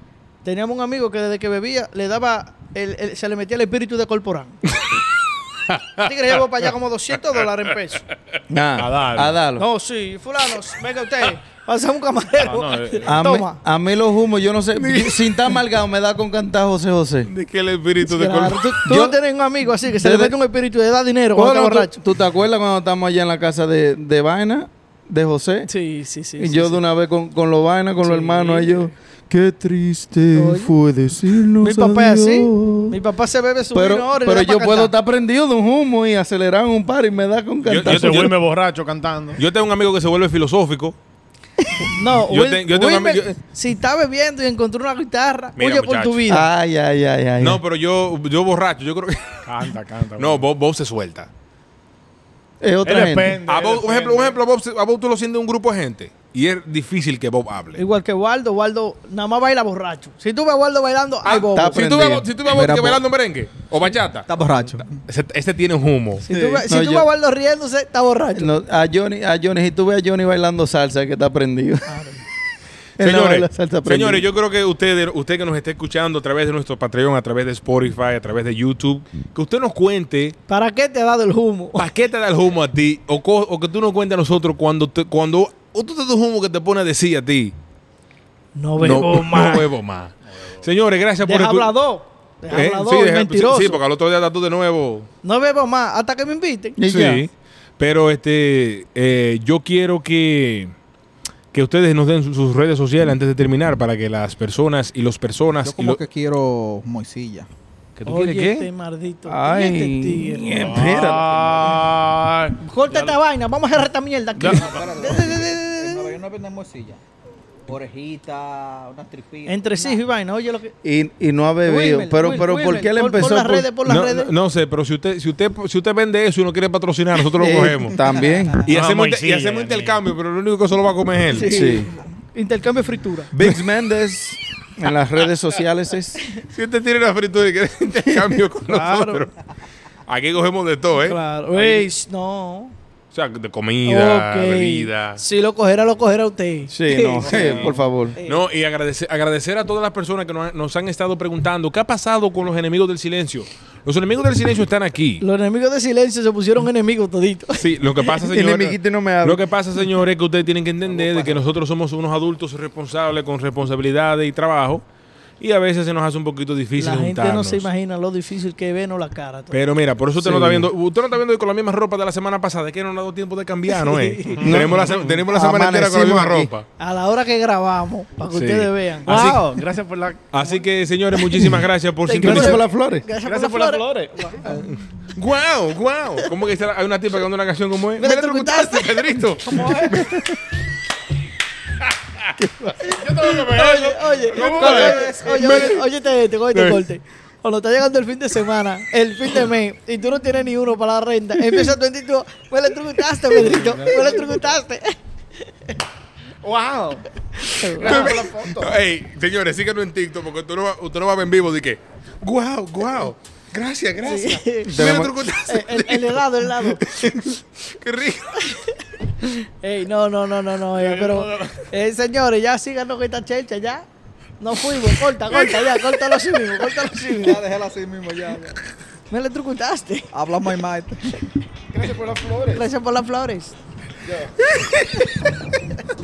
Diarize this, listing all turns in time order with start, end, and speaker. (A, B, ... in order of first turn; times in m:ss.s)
0:00.4-0:04.6 A
0:04.8-0:06.7 B
0:06.0-0:08.0 A
0:08.5-0:09.6 C
0:08.8-0:09.4 D
0:09.6-0:13.6 A
0:12.4-0:13.1 D
0:13.0-0:17.3 C
0:17.2-0:18.8 B
0:18.0-0:22.0 A
0:18.8-0:19.2 C
0:20.0-0:20.4 C
0:21.3-0:25.7 C
0:25.7-0:26.8 A
0:26.4-0:33.0 C
0:28.0-0:28.9 A
0:30.3-0:30.7 A
0:31.6-0:34.9 A
0:33.7-0:38.3 C
0:37.6-0:38.3 B
0:37.8-0:39.4 D
0:39.4-0:41.0 B
0:41.8-0:46.5 A
0:42.3-0:43.4 B
0:45.6-0:46.3 B
0:46.3-0:47.6 C
0:47.4-0:51.3 B
0:49.4-0:50.5 D
0:52.6-0:53.4 C
0:52.8-0:54.4 D
0:53.4-0:57.8 B
0:57.7-1:01.8 A
1:01.2-1:06.2 B
1:01.4-1:02.3 C
1:02.5-1:03.0 E
1:04.3-1:05.0 E
1:06.2-1:08.5 A
1:06.3-1:07.1 C
1:08.3-1:11.9 C
1:11.9-1:12.2 A
1:13.0-1:14.2 C
1:13.0-1:20.4 B
1:20.5-1:21.9 A
1:21.8-1:27.5 B
1:28.5-1:29.7 A
1:28.8-1:31.7 B
1:31.2-1:33.8 A
1:32.5-1:35.1 B
1:35.2-1:36.8 A
1:36.8-1:37.2 C
1:36.8-1:40.7 B
1:41.5-1:46.0 B
1:45.6-1:47.5 E
1:48.0-1:48.7 B
1:48.1-1:50.7 A
1:49.2-1:51.4 C
1:50.6-1:53.1 D
1:52.6-1:56.2 A
1:54.4-1:57.0 E
1:57.6-2:00.0 E
1:59.4-2:00.7 A
2:00.8-2:03.7 C
2:01.6-2:04.3 A
2:03.8-2:08.0 B
2:07.4-2:08.6 C
2:08.6-2:11.5 B
2:08.7-2:10.0 D
2:11.3-2:13.3 A
2:11.4-2:11.9 E
2:11.5-2:11.9 C
2:13.3-2:16.2 C
2:16.4-2:19.3 B
2:18.1-2:18.4 C
2:18.6-2:19.3 A
2:20.0-2:21.8 B
2:21.0-2:22.7 A
2:23.1-2:25.2 B
2:23.8-2:27.7 A
2:26.7-2:28.2 C
2:27.2-2:35.2 B
2:35.2-2:37.7 A
2:37.5-2:44.8 B
2:38.2-2:39.4 C
2:45.4-2:47.7 B
2:46.8-2:49.6 A
2:49.5-2:56.6 B
2:50.2-2:50.7 C
2:53.7-2:54.4 A
2:54.3-2:55.2 D
2:54.4-2:56.5 C
2:56.8-2:59.4 A
2:58.3-2:59.4 B
2:59.0-3:00.6 D
3:00.3-3:02.6 B
3:02.1-3:04.6 A
3:02.2-3:03.0 C
3:03.2-3:04.6 D
3:04.4-3:10.2 B
3:08.0-3:09.9 A
3:09.5-3:09.9 E
3:09.9-3:10.4 C
3:11.8-3:12.3 B
3:12.4-3:12.7 C
3:12.8-3:15.6 D
3:13.4-3:15.8 B
3:13.4-3:25.8 A
3:14.5-3:15.8 E
3:23.5-3:24.1 D
3:26.4-3:27.0 D
3:27.4-3:28.2 A
3:27.8-3:28.7 D
3:27.8-3:38.4 B
3:34.0-3:34.8 A
3:34.7-3:35.1 C
3:35.5-3:37.0 A
3:38.4-3:43.8 A
3:40.7-3:41.7 D
3:44.4-3:47.4 A
3:47.1-3:48.6 E
3:49.1-3:50.1 A
3:50.1-3:51.2 E
3:51.7-3:52.6 D
3:52.5-3:53.6 A
3:54.0-3:54.3 E